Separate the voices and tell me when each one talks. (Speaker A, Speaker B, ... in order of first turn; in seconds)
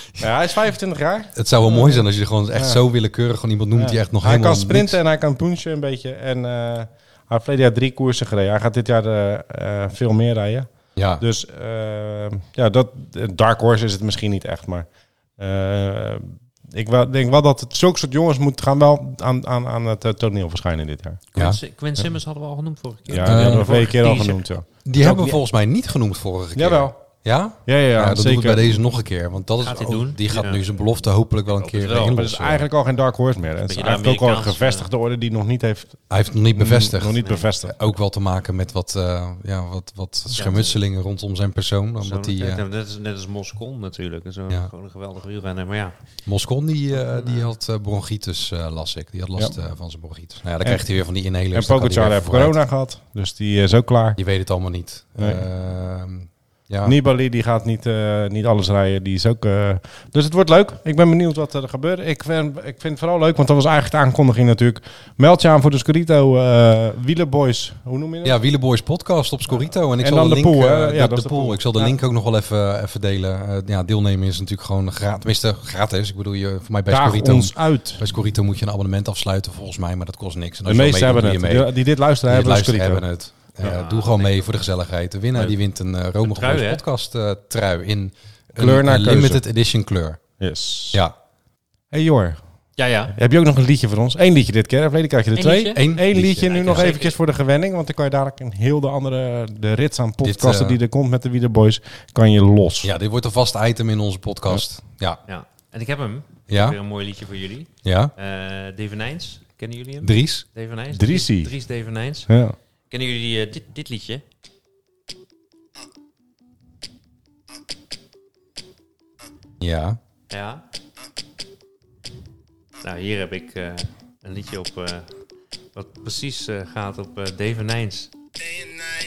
Speaker A: 0.2-2.8, 3.7-21.2, 23.1-25.4, 26.5-27.0, 27.6-28.8, 32.1-37.8, 50.6-50.9, 51.5-54.2, 55.2-55.5, 56.8-68.4, 69.5-72.0, 76.9-78.0, 80.6-83.1, 88.6-89.4, 90.4-91.0, 91.9-92.4, 93.1-102.9, 110.9-111.5, 112.3-112.5
Speaker B: 1.4-5.0, 10.9-11.2, 23.2-23.9, 24.9-32.7, 36.1-42.6, 46.2-52.6, 54.1-57.0, 68.2-90.2, 95.7-96.9, 100.2-100.8, 102.8-105.2, 106.5-106.8, 107.8-108.1, 110.0-110.5, 119.6-120.0
Speaker C: 21.3-24.5, 29.6-30.6, 31.6-32.2, 33.6-34.9, 37.2-37.5, 40.3-40.8, 42.0-46.0, 46.9-47.5, 83.6-84.5, 86.2-86.8, 92.8-93.1, 95.3-95.8, 96.4-97.2, 105.3-112.3, 112.9-114.2, 120.3-120.6, 122.8-125.1, 125.8-128.1